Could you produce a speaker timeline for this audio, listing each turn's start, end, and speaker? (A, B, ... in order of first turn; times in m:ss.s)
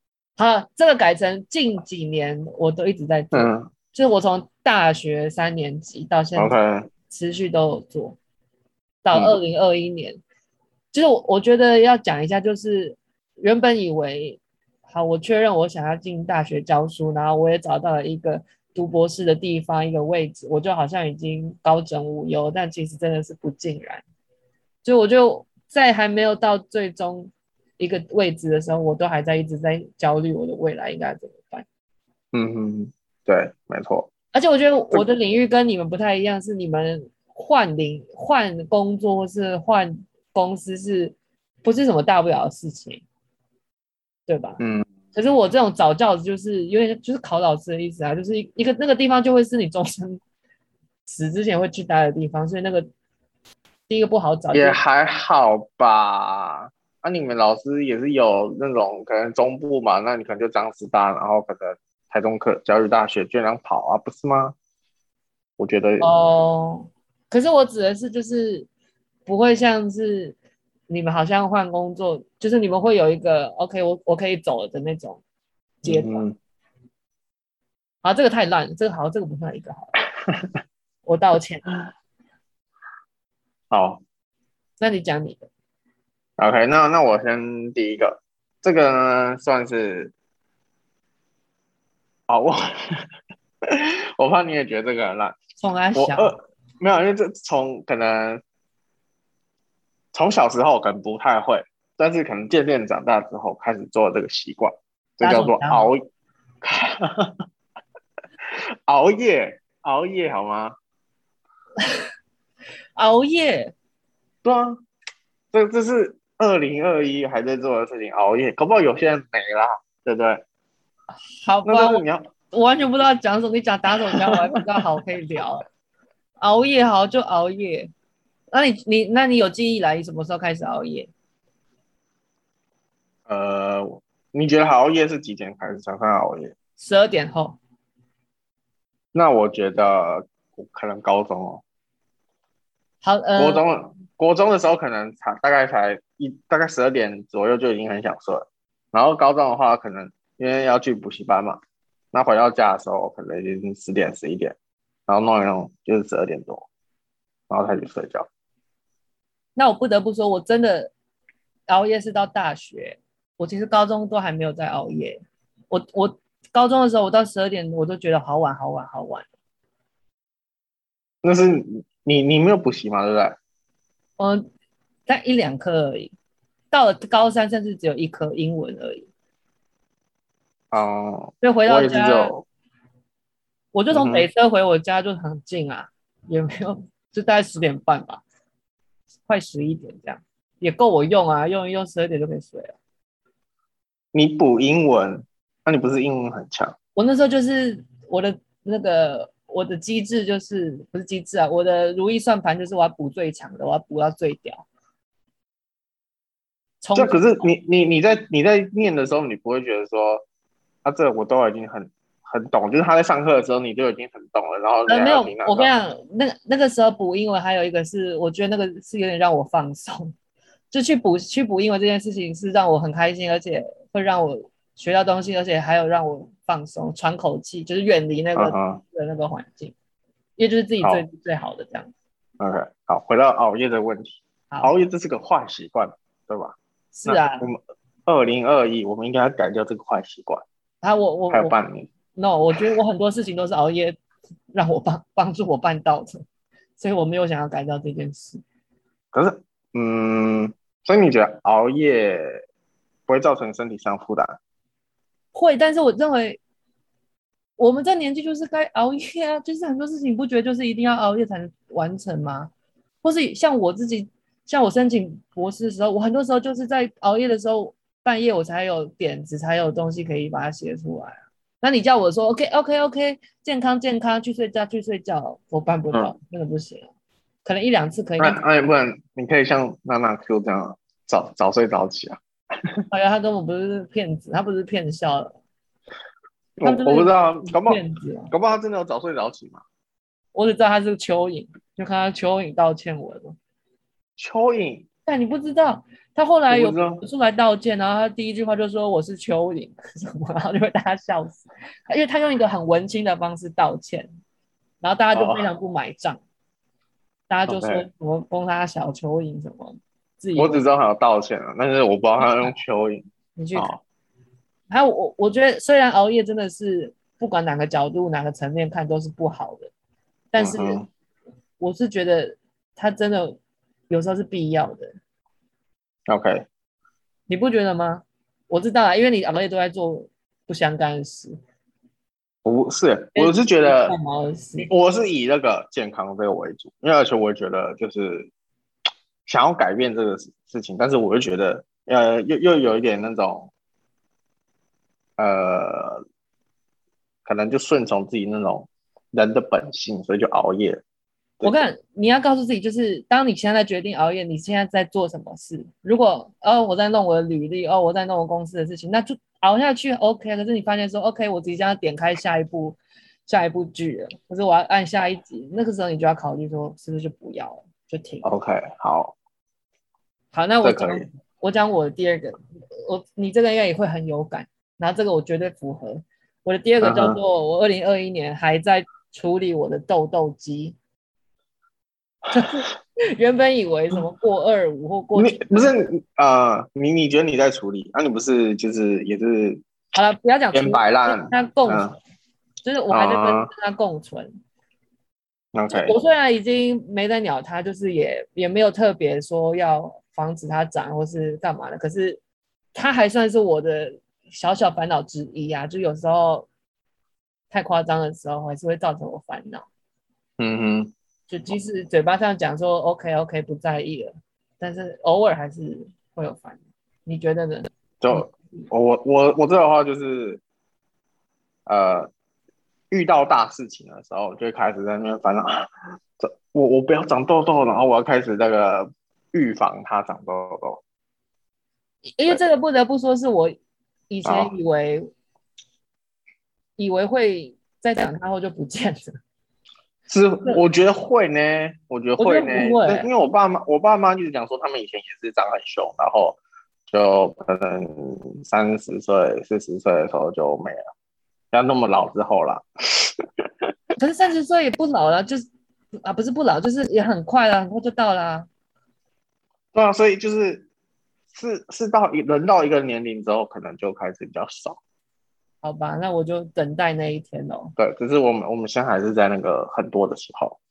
0:00.4-0:06.6 A
0:03.3-0:03.7 B
0:06.4-0:06.9 B
0:07.1-0:08.2 A
0:09.0-0:10.2 A
0:09.1-0:09.4 B
0:10.9-0:24.0 A
0:24.8-0:31.6 A
0:32.3-0:34.1 B
0:34.3-0:43.0 A
0:44.3-0:44.6 A
0:44.6-0:44.9 B
0:45.1-0:50.2 A
0:51.0-0:52.9 A
0:53.9-0:54.8 A
0:54.5-1:04.6 B
1:05.6-1:06.1 B
1:06.0-1:08.7 A
1:09.2-1:10.4 A
1:10.9-1:15.2 A
1:15.8-1:16.2 A
1:15.8-1:16.3 B
1:18.0-1:20.0 A
1:21.0-1:21.6 A
1:23.7-1:24.0 B
1:24.8-1:25.5 A
1:26.4-1:30.1 B
1:32.3-1:33.0 B
1:33.6-1:35.4 B
1:35.6-1:36.4 A
1:35.9-1:38.4 B
1:40.1-1:46.0 B
1:45.2-1:45.9 A
1:46.6-1:47.4 B
1:48.9-1:50.8 B
1:53.0-1:53.7 A
1:54.4-1:54.8 B
1:55.5-2:00.4 B
2:01.4-2:05.6 A
2:01.6-2:02.3 B
2:04.0-2:04.4 B
2:06.4-2:07.9 A
2:08.5-2:11.1 A
2:13.3-2:16.5 B
2:16.8-2:17.6 A
2:19.1-2:21.6 B
2:23.0-2:23.6 A
2:23.4-2:31.6 B
2:32.1-2:34.5 B
2:35.1-2:36.7 B
2:37.5-2:38.3 B
2:39.6-2:40.9 A
2:41.7-2:49.3 A
2:51.2-2:53.4 B
2:54.2-2:54.4 A
2:55.0-2:56.1 A
2:56.7-2:59.1 A
3:00.7-3:02.4 B
3:01.4-3:02.3 A
3:03.7-3:08.2 A
3:03.9-3:04.3 B
3:09.3-3:12.8 A
3:14.1-3:16.7 B
3:17.0-3:24.6 A
3:26.8-3:27.5 A
3:26.9-3:30.2 B
3:30.8-3:35.7 B
3:34.9-3:40.1 A
3:40.7-3:49.7 A
3:48.4-3:48.8 B
3:50.4-3:51.9 A
3:50.8-3:51.0 B
3:52.4-4:00.4 B
3:56.9-3:57.5 A
4:00.8-4:01.5 A
4:01.3-4:01.9 B
4:02.1-4:04.0 A
4:04.5-4:06.2 A
4:06.8-4:08.4 A
4:09.1-4:12.4 B
4:13.1-4:14.4 B
4:15.3-4:16.4 A
4:17.6-4:22.5 A
4:23.0-4:36.9 A
4:37.4-4:38.4 A
4:38.2-4:42.2 B
4:42.9-4:45.4 A
4:46.6-4:49.6 B
4:46.6-4:48.3 A
4:50.3-4:53.4 A
4:54.2-4:54.8 B
4:55.1-5:04.1 A
4:56.5-4:57.0 B
5:04.8-5:06.2 A
5:05.1-5:05.5 B
5:07.3-5:10.6 A
5:07.5-5:07.9 B
5:10.4-5:13.0 B
5:12.2-5:12.5 A
5:13.4-5:13.7 A
5:13.5-5:13.8 B
5:14.7-5:19.7 A
5:20.3-5:20.8 A
5:20.4-5:20.9 B
5:21.6-5:23.4 A
5:23.9-5:24.9 A
5:26.1-5:26.4 B
5:27.3-5:31.4 A
5:32.4-5:34.0 B
5:33.2-5:34.7 A
5:34.6-5:38.3 B
5:39.2-5:43.5 B
5:45.2-5:46.0 B
5:47.2-5:50.8 B
5:51.4-6:08.3 A
6:08.2-6:09.1 B
6:10.3-6:20.8 A
6:10.6-6:11.1 B
6:16.8-6:17.2 B
6:22.3-6:25.7 A
6:25.2-6:29.6 B
6:29.9-6:32.0 A
6:30.5-6:31.9 B
6:32.6-6:34.3 A
6:32.9-6:33.5 B
6:35.5-6:36.0 B
6:35.7-6:42.2 A
6:42.7-6:46.5 A
6:47.5-6:49.6 A
6:50.4-6:50.9 B
6:51.3-6:58.7 A
6:58.0-7:00.4 B
7:01.6-7:02.1 B
7:02.9-7:10.8 B
7:12.1-7:13.6 A
7:14.1-7:15.1 A
7:14.2-7:14.5 B
7:16.8-7:19.2 A
7:20.1-7:30.8 B
7:22.2-7:23.1 A
7:31.5-7:33.1 B
7:34.0-7:35.5 A
7:36.0-7:38.5 A
7:39.7-7:40.7 B
7:41.3-7:44.8 B
7:45.6-7:47.7 A
7:47.8-7:50.6 B